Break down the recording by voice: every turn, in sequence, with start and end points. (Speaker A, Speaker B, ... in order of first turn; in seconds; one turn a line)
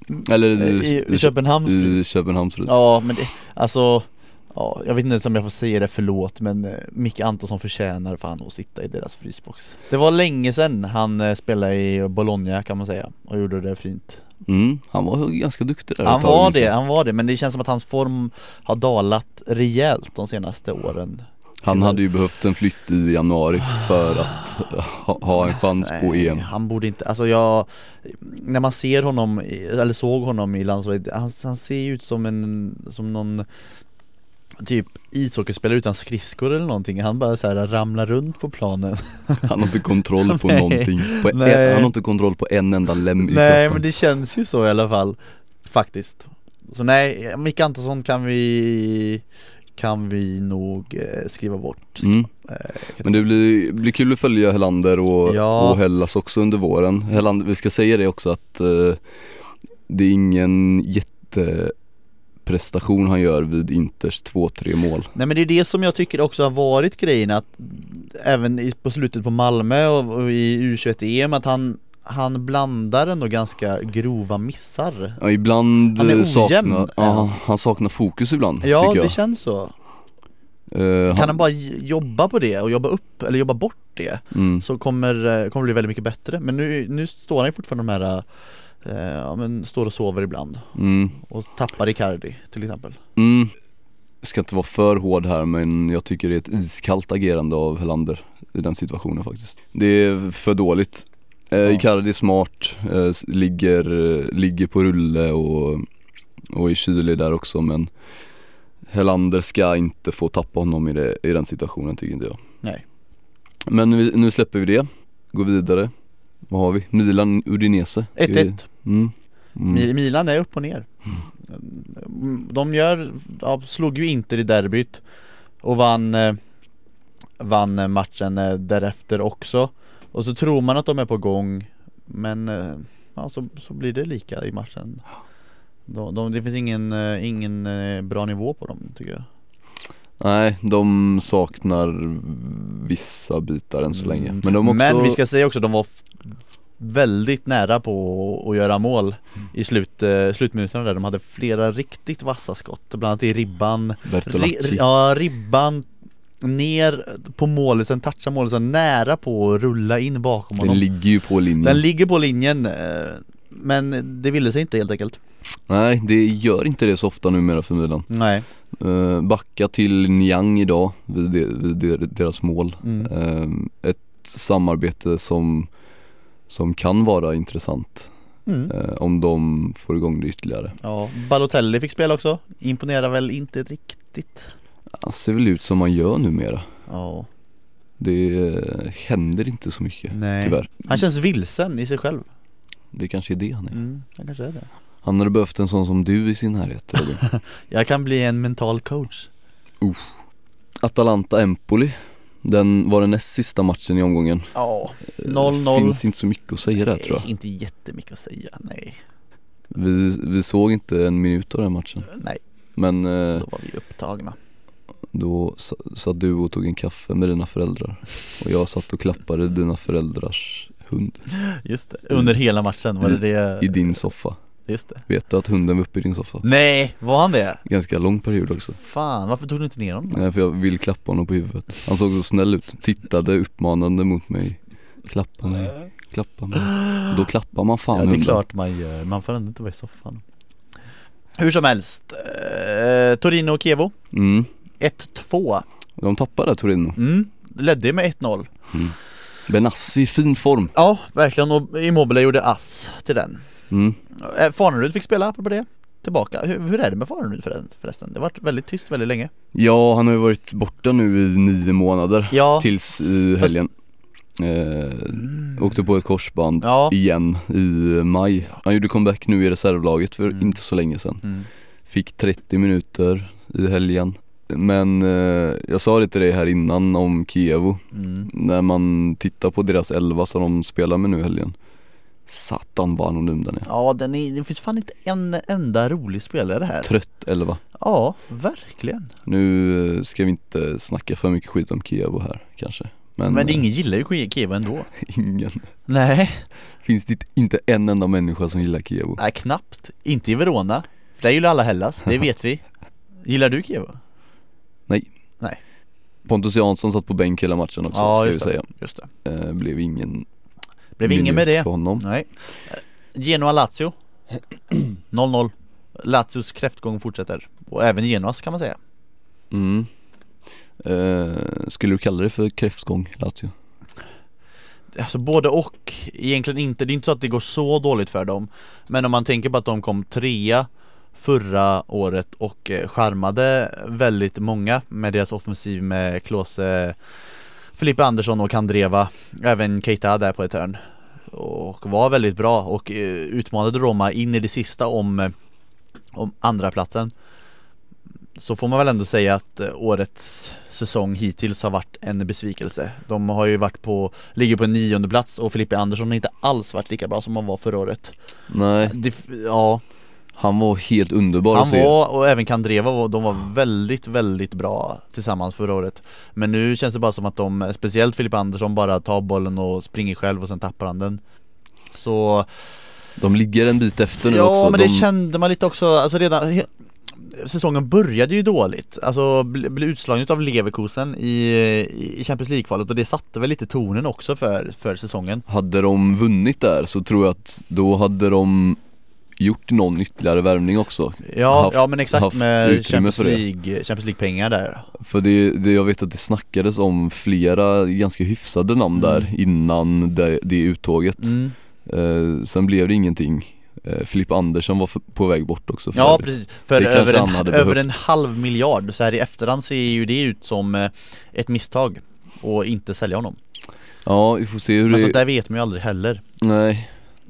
Speaker A: 0.1-2.0
Speaker B: 0.2-2.8
Speaker A: 2.6-14.2
Speaker B: 14.5-16.7
Speaker A: 16.0-22.0
Speaker B: 21.6-26.5
Speaker A: 25.4-33.5
Speaker A: 34.6-39.5
Speaker B: 39.4-43.8
Speaker A: 40.2-41.9
Speaker A: 43.2-49.2
Speaker A: 49.8-53.2
Speaker B: 52.0-52.3
Speaker B: 53.0-59.0
Speaker A: 55.3-55.8
Speaker B: 59.9-61.7
Speaker B: 62.4-65.1
Speaker A: 65.2-75.2
Speaker B: 75.2-79.2
Speaker A: 76.0-77.3
Speaker A: 78.6-79.7
Speaker B: 80.7-81.4
Speaker A: 81.1-88.3
Speaker B: 84.3-84.7
Speaker A: 88.8-90.7
Speaker B: 90.8-91.2
Speaker A: 91.2-93.0
Speaker B: 93.2-93.5
Speaker B: 94.2-105.9
Speaker B: 106.5-107.9
Speaker B: 108.9-112.4
Speaker B: 113.7-115.9
Speaker B: 116.5-119.9
Speaker A: 118.2-118.6
Speaker A: 119.7-120.9
Speaker A: 121.5-125.0
Speaker A: 125.6-126.4
Speaker A: 127.4-135.0
Speaker A: 135.9-139.3
Speaker B: 140.2-145.2
Speaker A: 143.9-155.9
Speaker B: 154.1-154.8
Speaker A: 156.4-160.8
Speaker B: 160.6-161.8
Speaker A: 161.6-165.2
Speaker B: 165.7-168.1
Speaker A: 168.1-168.5
Speaker B: 168.7-175.7
Speaker A: 172.8-173.1
Speaker B: 176.5-178.1
Speaker A: 178.5-178.7
Speaker B: 178.7-180.8
Speaker A: 180.8-184.5
Speaker B: 185.0-186.7
Speaker A: 186.9-187.3
Speaker B: 188.0-191.0
Speaker A: 190.1-192.3
Speaker B: 192.9-193.8
Speaker A: 193.7-194.7
Speaker B: 195.0-197.2
Speaker A: 197.2-199.3
Speaker B: 199.8-200.2
Speaker B: 200.8-204.5
Speaker A: 204.6-206.0
Speaker B: 205.2-207.3
Speaker A: 206.8-209.0
Speaker B: 209.7-212.1
Speaker A: 212.1-212.4
Speaker B: 212.8-213.5
Speaker A: 213.4-214.4
Speaker B: 215.1-221.3
Speaker A: 221.3-224.1
Speaker B: 223.0-224.4
Speaker A: 224.7-225.1
Speaker B: 225.1-226.4
Speaker A: 226.4-227.6
Speaker B: 227.7-228.8
Speaker A: 228.8-230.2
Speaker B: 230.1-238.4
Speaker A: 236.6-237.1
Speaker A: 237.9-240.2
Speaker A: 241.4-243.9
Speaker B: 244.1-244.5
Speaker A: 244.8-245.7
Speaker B: 246.0-247.0
Speaker A: 247.0-248.5
Speaker B: 249.5-250.7
Speaker A: 250.8-253.4
Speaker B: 253.7-254.0
Speaker A: 254.1-259.3
Speaker B: 259.5-263.7
Speaker A: 262.3-262.7
Speaker B: 264.4-271.3
Speaker A: 266.6-266.9
Speaker B: 271.9-281.6
Speaker A: 277.9-278.3
Speaker B: 282.3-283.7
Speaker A: 283.7-286.9
Speaker B: 286.8-287.6
Speaker A: 287.8-289.1
Speaker B: 289.3-293.6
Speaker A: 293.3-294.9
Speaker B: 294.9-295.7
Speaker A: 295.9-296.5
Speaker B: 296.8-299.2
Speaker A: 299.2-302.6
Speaker A: 303.2-304.0
Speaker B: 306.3-308.7
Speaker A: 307.9-309.1
Speaker B: 309.2-310.3
Speaker A: 311.0-313.9
Speaker B: 311.1-312.0
Speaker A: 315.1-318.8
Speaker B: 319.5-319.9
Speaker B: 320.8-323.5
Speaker A: 324.9-337.0
Speaker A: 337.8-345.3
Speaker A: 346.1-347.1
Speaker A: 348.4-358.1
Speaker B: 358.5-359.0
Speaker A: 358.9-359.8
Speaker B: 360.4-362.0
Speaker A: 361.5-371.2
Speaker A: 371.9-372.5
Speaker B: 373.2-375.1
Speaker A: 374.2-385.4
Speaker B: 385.5-388.8
Speaker B: 389.4-393.4
Speaker A: 391.2-394.9
Speaker B: 395.0-407.9
Speaker A: 399.0-399.3
Speaker A: 401.2-401.6
Speaker A: 405.9-413.4
Speaker B: 414.1-415.2
Speaker A: 414.9-416.2
Speaker B: 416.4-416.9